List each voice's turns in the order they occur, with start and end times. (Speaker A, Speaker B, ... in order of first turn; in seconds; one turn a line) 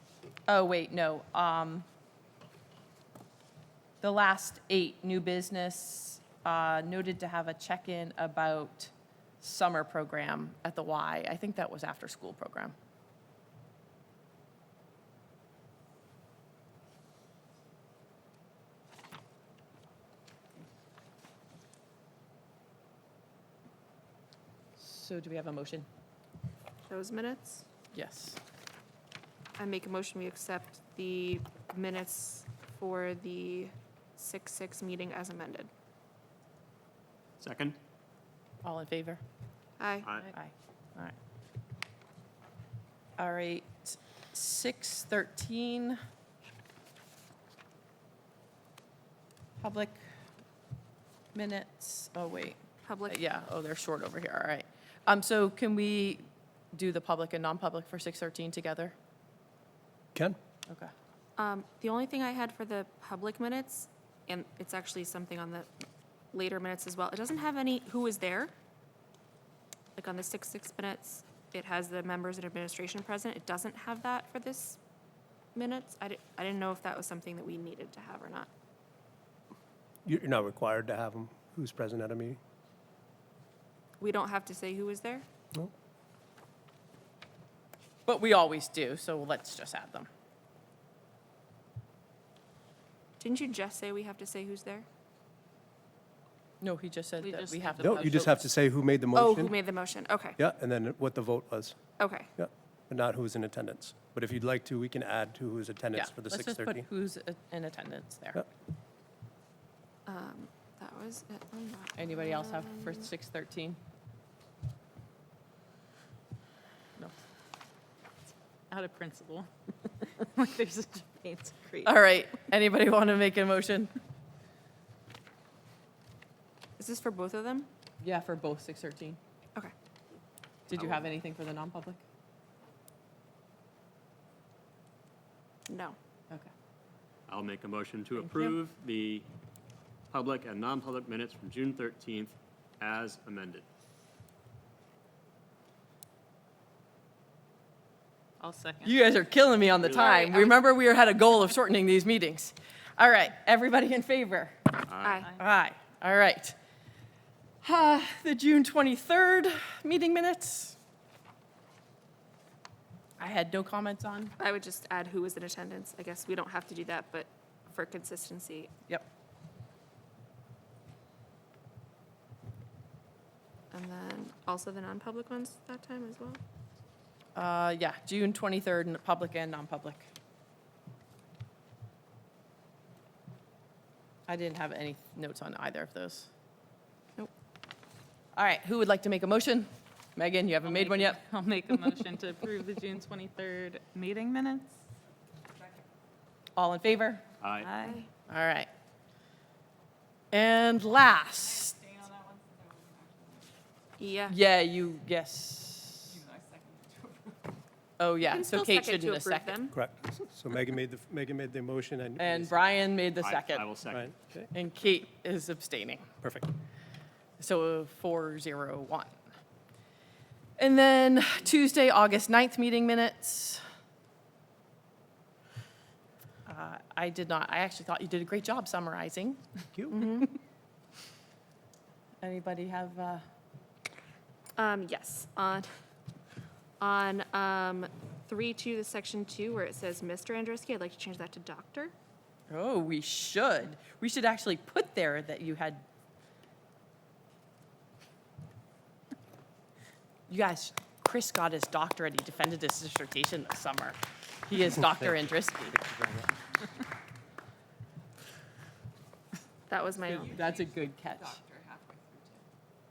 Speaker A: 0.5-1.9
Speaker A: 4.0-12.7
Speaker A: 24.8-25.9
Speaker B: 26.9-27.6
Speaker A: 27.9-28.4
Speaker B: 29.6-35.7
Speaker C: 37.4-37.8
Speaker A: 38.6-39.2
Speaker B: 39.8-40.2
Speaker C: 40.0-40.3
Speaker A: 40.3-41.1
Speaker A: 43.2-46.0
Speaker A: 49.6-50.0
Speaker A: 51.3-58.9
Speaker B: 52.8-53.2
Speaker B: 61.4-65.7
Speaker B: 66.3-68.5
Speaker B: 70.0-74.8
Speaker B: 75.5-78.5
Speaker D: 80.0-82.4
Speaker B: 84.0-85.2
Speaker A: 88.1-90.1
Speaker B: 93.2-94.8
Speaker A: 96.6-98.4
Speaker E: 97.2-98.4
Speaker D: 97.8-99.5
Speaker B: 99.1-100.4
Speaker D: 100.4-101.8
Speaker B: 102.0-102.3
Speaker D: 102.4-106.9
Speaker A: 105.9-108.5
Speaker B: 110.0-113.1
Speaker A: 112.0-113.8
Speaker E: 118.7-122.0
Speaker A: 121.8-123.9
Speaker B: 126.8-127.7
Speaker A: 128.0-129.2
Speaker A: 130.7-132.0
Speaker B: 135.7-135.9
Speaker C: 137.3-139.3
Speaker A: 138.2-138.6
Speaker C: 140.1-143.7
Speaker E: 148.4-149.0
Speaker A: 148.8-154.7
Speaker C: 149.8-150.1
Speaker B: 149.9-150.5
Speaker C: 154.9-155.2
Speaker B: 155.0-155.3
Speaker A: 155.3-156.6
Speaker A: 157.6-160.8
Speaker A: 163.2-164.3
Speaker B: 164.4-168.7
Speaker B: 173.7-176.4
Speaker A: 177.3-180.1
Speaker A: 184.3-186.3
Speaker A: 188.3-191.2
Speaker E: 190.6-194.7
Speaker A: 196.6-197.2
Speaker C: 197.4-197.7
Speaker E: 197.6-198.1
Speaker A: 198.3-198.7
Speaker A: 200.3-201.8
Speaker E: 201.7-203.5
Speaker B: 204.0-204.3
Speaker A: 204.3-206.2
Speaker E: 206.2-207.3
Speaker A: 208.0-209.6
Speaker B: 208.2-209.8
Speaker D: 209.7-212.6
Speaker A: 212.2-213.7
Speaker C: 213.2-214.1
Speaker D: 213.9-214.5
Speaker A: 214.5-216.1
Speaker D: 216.2-216.5
Speaker A: 217.4-219.1
Speaker A: 220.6-223.6
Speaker A: 226.4-229.4
Speaker B: 229.9-230.3
Speaker A: 232.2-233.2
Speaker B: 234.6-235.7
Speaker B: 236.8-241.9
Speaker A: 242.5-245.8
Speaker A: 250.3-255.8
Speaker D: 254.8-255.1
Speaker D: 255.7-256.3
Speaker B: 259.7-260.3
Speaker A: 260.1-261.4
Speaker E: 260.3-262.4